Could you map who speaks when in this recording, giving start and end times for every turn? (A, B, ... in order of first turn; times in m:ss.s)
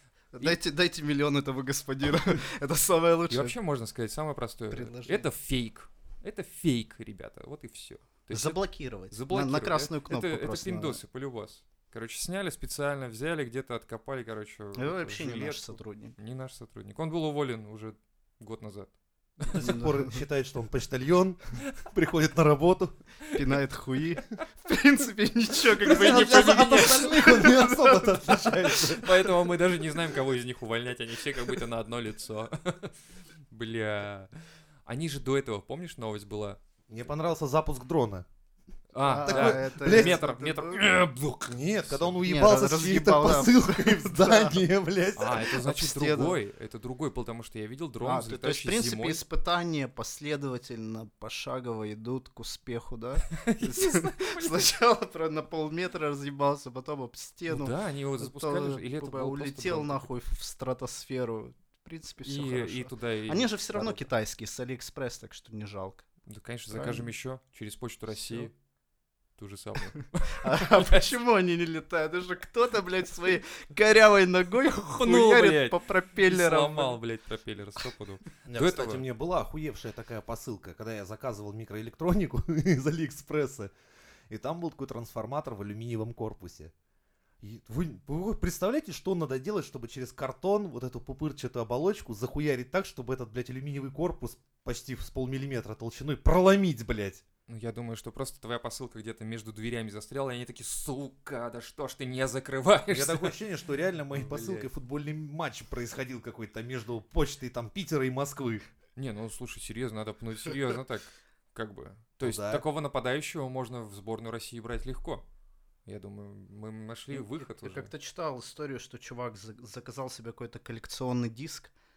0:00.3-0:03.5 A
0:03.3-0:19.8 B
0:04.7-0:05.2 A
0:08.3-0:11.0 A
0:14.8-0:16.1 A
0:19.5-0:20.2 A
0:19.6-0:23.0 C
0:23.3-0:29.0 A
0:25.8-0:29.0 C
0:28.9-0:33.0 B
0:33.5-0:34.3 B
0:34.8-0:36.6 B
0:36.9-0:38.2 C
0:38.9-0:41.1 B
0:39.0-0:40.8 A
0:39.2-0:40.2 C
0:40.9-0:45.4 C
0:41.9-0:42.2 B
0:42.2-0:44.6 A
0:45.2-0:49.2 B
0:45.6-0:46.4 A
0:48.0-1:06.0 A
0:53.3-0:54.7 B
0:57.5-1:00.1 B
1:02.2-1:04.0 B
1:06.3-1:08.5 B
1:06.7-1:07.1 A
1:08.2-1:08.5 A
1:09.4-1:11.1 B
1:10.4-1:17.0 A
1:15.0-1:19.0 B
1:18.5-1:23.7 C
1:24.3-1:26.7 C
1:27.4-1:37.2 C
1:37.5-1:43.3 B
1:42.9-1:48.6 C
1:44.1-1:44.7 B
1:49.0-1:55.2 B
1:52.2-1:52.6 C
1:55.8-1:57.9 B
1:57.1-2:01.7 A